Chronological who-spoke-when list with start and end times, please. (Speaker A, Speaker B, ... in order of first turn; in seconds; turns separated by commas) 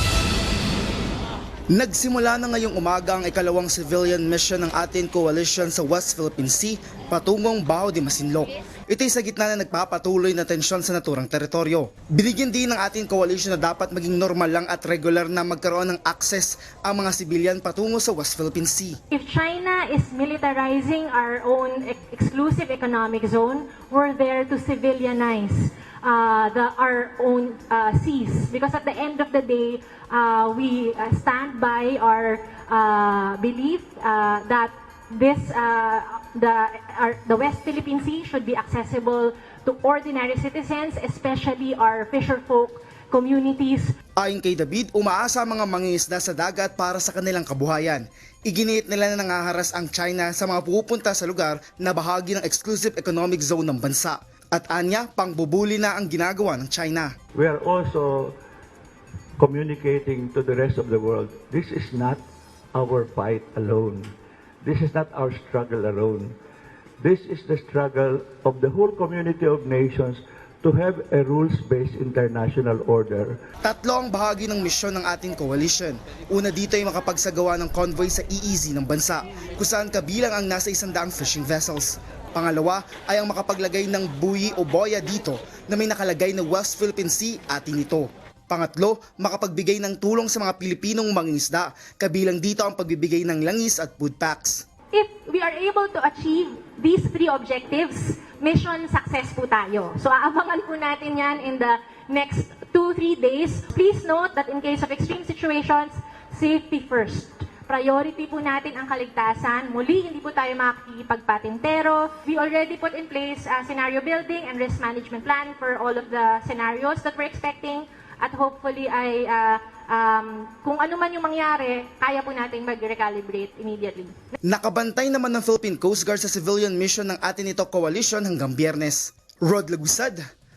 Speaker A: 1.7-19.0, Speaker B: 19.1-43.9, Speaker A: 44.2-57.1, Speaker C: 57.4-58.4, Speaker C: 59.4-64.1, Speaker C: 64.6-66.3, Speaker C: 67.0-73.4, Speaker A: 73.6-94.7, Speaker B: 94.9-124.2, Speaker A: 124.4-130.2